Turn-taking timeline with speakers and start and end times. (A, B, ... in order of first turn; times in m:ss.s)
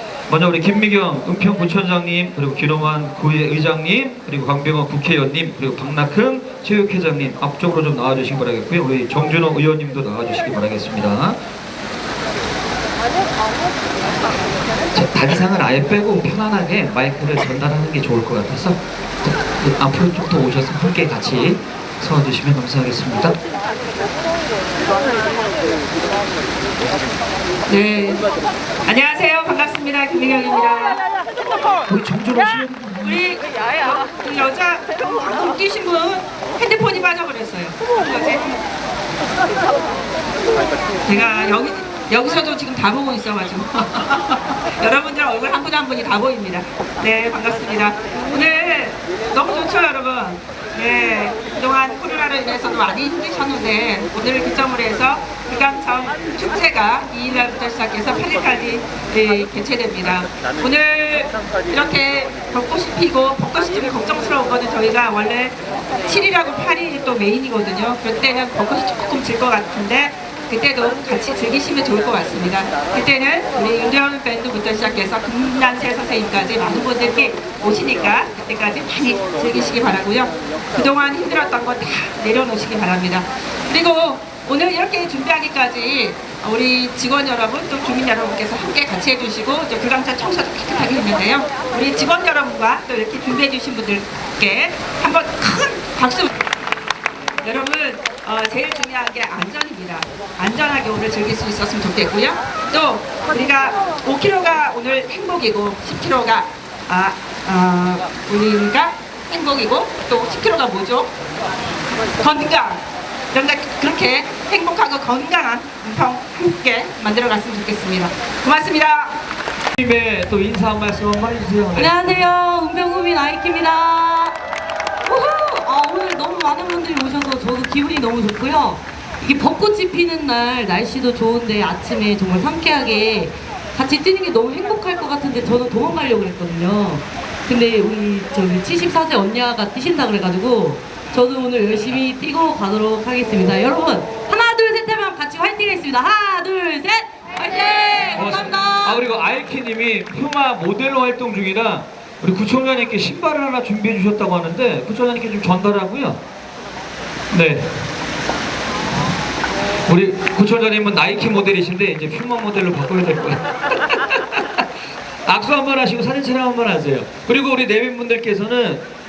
0:00.3-0:11.4 A
0:14.9-0:23.4 A
0:27.7-0:28.2 B
0:28.9-0:31.0 B
0:31.9-0:33.2 A
0:33.0-0:33.4 B
0:34.0-0:38.5 B
0:41.0-1:36.3 B
1:37.4-1:51.1 B
1:52.2-1:59.2 B
1:59.8-2:02.2 A
2:01.8-2:04.4 C
2:05.1-2:29.0 C
2:28.1-2:36.2 A
2:37.3-2:37.7 A
2:39.9-2:44.6 A
2:45.2-2:48.9 A